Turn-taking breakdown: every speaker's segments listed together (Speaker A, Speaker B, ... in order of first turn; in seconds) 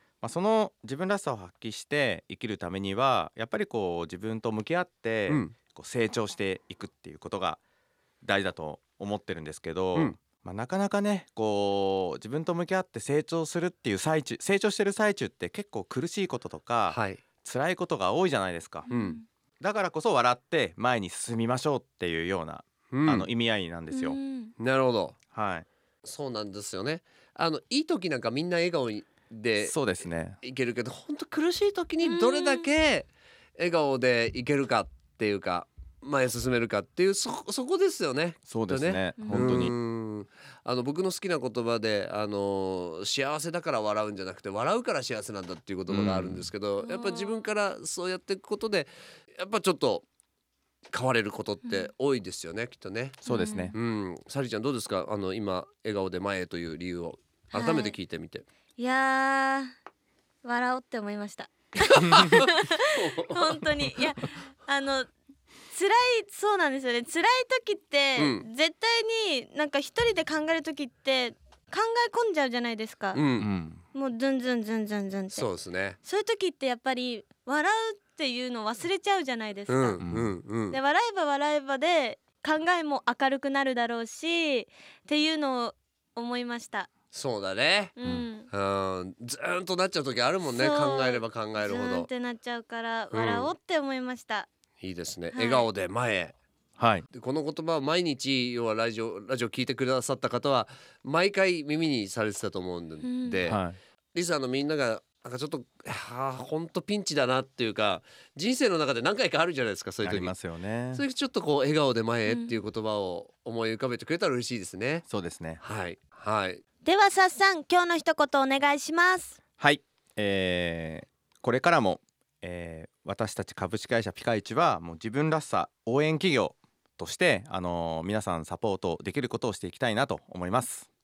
Speaker A: 0.2-7.6, 8.2-18.9, 19.6-24.2, 25.3-25.7, 29.6-30.4, 38.5-39.7, 45.9-46.5, 53.2-53.8, 73.4-73.8, 80.0-80.3, 96.8-97.0, 103.5-103.8, 110.0-111.0, 115.1-115.6, 119.6-130.9
Speaker B: 16.9-17.2, 18.9-19.2, 22.9-23.3, 24.6-25.1, 26.0-29.9, 30.4-50.1, 50.9-53.2, 53.7-58.5, 62.0-62.3, 63.0-63.9, 68.2-68.5, 73.1-73.5, 75.3-76.0, 79.7-80.8, 87.1-87.9, 88.5-92.1, 93.1-93.5, 94.8-96.3, 97.1-103.6, 104.1-110.3, 110.9-115.0, 115.6-116.6
Speaker C: 18.9-19.2, 23.9-24.5, 32.0-32.7, 39.2-39.5, 46.8-47.5, 51.6-51.9, 53.2-53.8, 57.5-58.0, 58.8-59.7, 60.4-65.1, 65.7-73.2, 73.9-75.5, 76.0-80.0, 80.7-86.9, 88.0-88.5, 90.4-94.5, 95.3-95.7, 103.0-103.4, 112.3-112.5, 116.8-119.4